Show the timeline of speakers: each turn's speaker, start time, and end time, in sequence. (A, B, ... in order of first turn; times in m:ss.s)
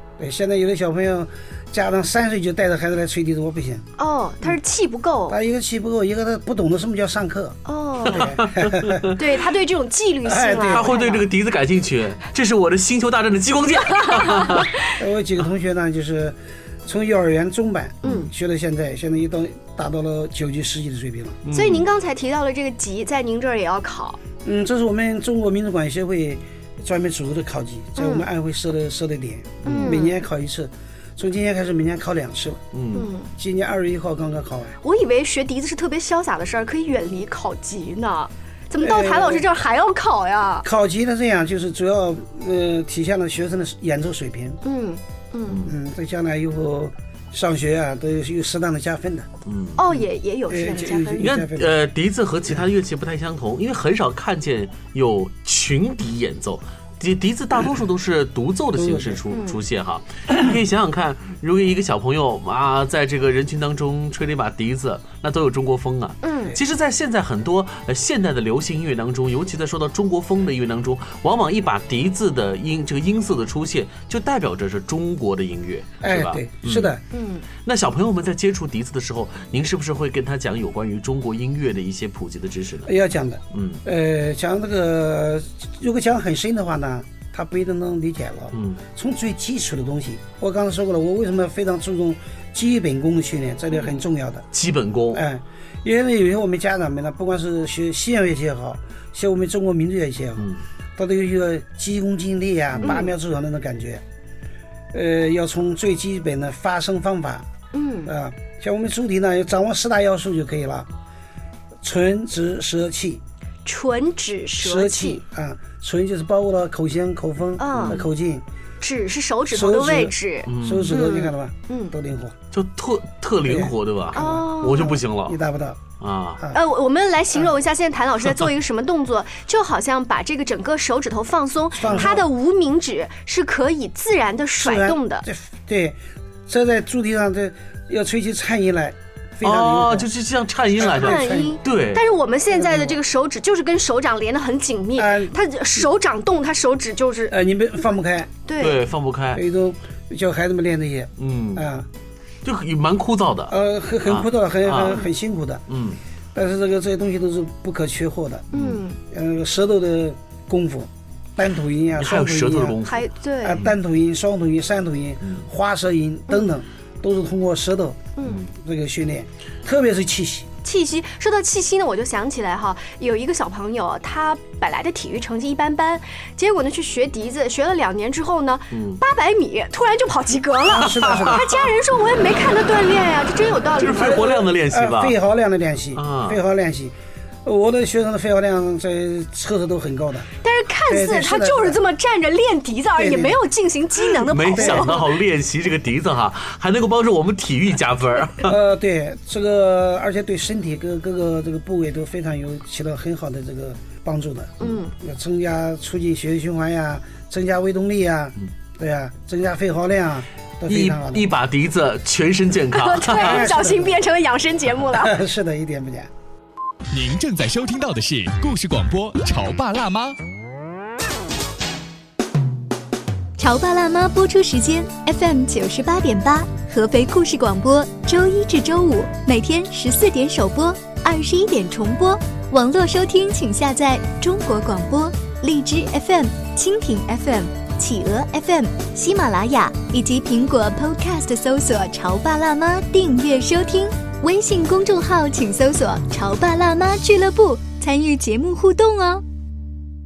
0:00.2-0:03.8 A
0:04.0-0:05.4 B
0:05.3-0:09.1 A
0:07.6-0:08.3 B
0:08.1-0:09.2 C
0:09.2-0:11.2 B
0:10.2-0:10.9 A
0:10.6-0:14.7 C
0:14.0-0:14.7 B
0:15.0-0:21.4 A
0:18.0-0:18.3 B
0:21.4-0:21.9 C
0:21.5-0:24.2 B
0:24.4-0:32.6 A
0:28.0-0:28.2 B
0:29.6-0:30.0 C
0:29.6-0:30.1 B
0:32.7-0:33.1 C
0:32.9-0:33.3 B
0:33.4-0:34.8 A
0:34.8-0:40.6 B
0:38.8-0:39.5 A
0:40.6-0:44.6 A
0:44.6-0:45.7 B
0:45.5-0:45.7 C
0:45.6-0:49.3 A
0:49.4-0:50.0 C
0:49.8-0:51.3 B
0:50.5-0:51.8 A
0:51.2-1:16.9 C
0:58.7-0:59.2 A
0:59.3-0:59.6 B
1:06.2-1:06.5 B
1:16.0-1:17.0 A
1:17.1-1:17.4 B
1:17.6-1:22.9 C
1:22.8-1:34.5 A
1:23.5-1:23.8 C
1:28.5-1:28.8 C
1:34.5-1:35.2 C
1:35.1-1:44.0 A
1:42.8-1:43.1 B
1:44.9-1:47.5 A
1:47.7-1:48.1 B
1:48.0-1:50.9 A
1:51.8-1:53.2 A
1:53.6-1:55.2 B
1:54.6-1:58.4 A
1:57.6-1:58.0 B
1:57.7-1:58.0 C
1:58.8-2:01.9 B
1:59.5-2:02.3 A
2:00.4-2:01.0 C
2:02.5-2:05.4 C
2:03.5-2:05.8 A
2:04.1-2:05.0 B
2:06.0-2:06.4 C
2:06.5-2:15.2 B
2:11.7-2:12.3 A
2:14.6-2:20.1 A
2:19.4-2:22.0 C
2:20.7-2:21.6 A
2:20.8-2:27.3 B
2:22.5-2:23.0 A
2:25.0-2:25.4 A
2:27.3-2:28.3 A
2:28.5-2:28.8 B
2:28.6-2:29.4 C
2:29.3-2:31.9 A
2:31.2-2:31.6 C
2:32.4-2:33.5 C
2:33.5-2:35.6 A
2:34.0-2:35.0 C
2:35.7-2:36.0 C
2:36.3-2:38.5 A
2:38.5-2:38.8 C
2:38.5-2:39.0 B
2:39.1-2:42.8 A
2:42.0-2:43.7 C
2:42.8-2:43.6 B
2:43.4-2:50.5 A
2:48.2-2:48.4 B
2:50.6-3:04.4 B
2:58.7-2:59.0 C
3:00.7-3:01.4 A
3:00.8-3:01.7 C
3:03.8-3:05.1 C
3:03.9-3:10.3 A
3:05.9-3:06.4 C
3:10.4-3:15.0 B
3:10.9-3:11.8 A
3:13.0-3:13.4 A
3:14.3-3:18.5 C
3:14.5-3:15.0 A
3:18.4-3:31.3 A
3:24.6-3:24.9 B
3:30.7-3:33.5 C
3:32.7-3:35.1 B
3:33.1-3:34.0 A
3:34.9-3:36.1 A
3:36.9-3:40.2 D
3:43.4-4:09.2 E